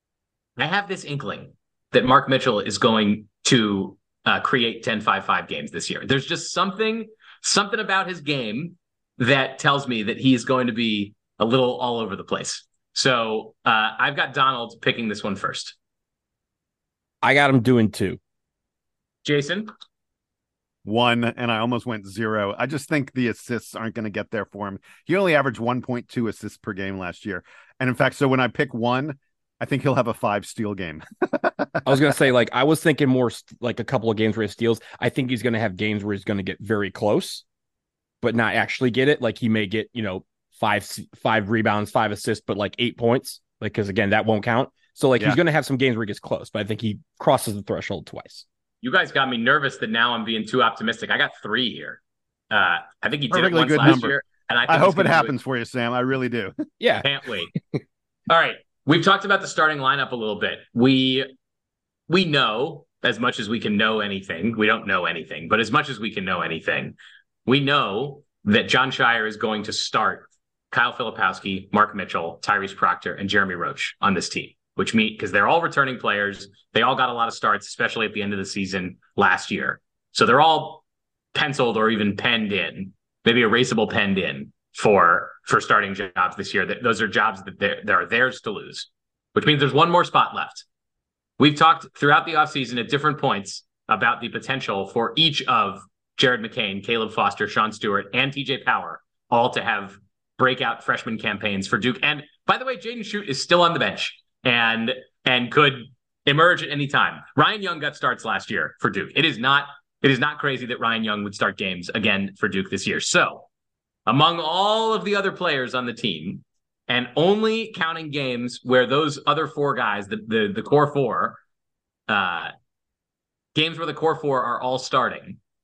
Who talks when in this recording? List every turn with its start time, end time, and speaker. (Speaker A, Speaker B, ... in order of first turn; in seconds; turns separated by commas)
Speaker A: 0.6-15.7, Speaker B: 17.2-18.2, Speaker A: 19.2-19.7, Speaker C: 20.8-32.0, Speaker B: 31.8-37.4, Speaker B: 38.2-48.4, Speaker A: 48.8-52.0, Speaker A: 52.5-55.3, Speaker C: 53.3-56.6, Speaker B: 56.8-57.0, Speaker A: 57.0-57.5, Speaker A: 58.3-61.3, Speaker A: 62.1-80.8, Speaker A: 81.3-90.6, Speaker A: 91.4-113.5, Speaker A: 114.1-121.4, Speaker A: 122.1-122.5, Speaker A: 123.5-125.4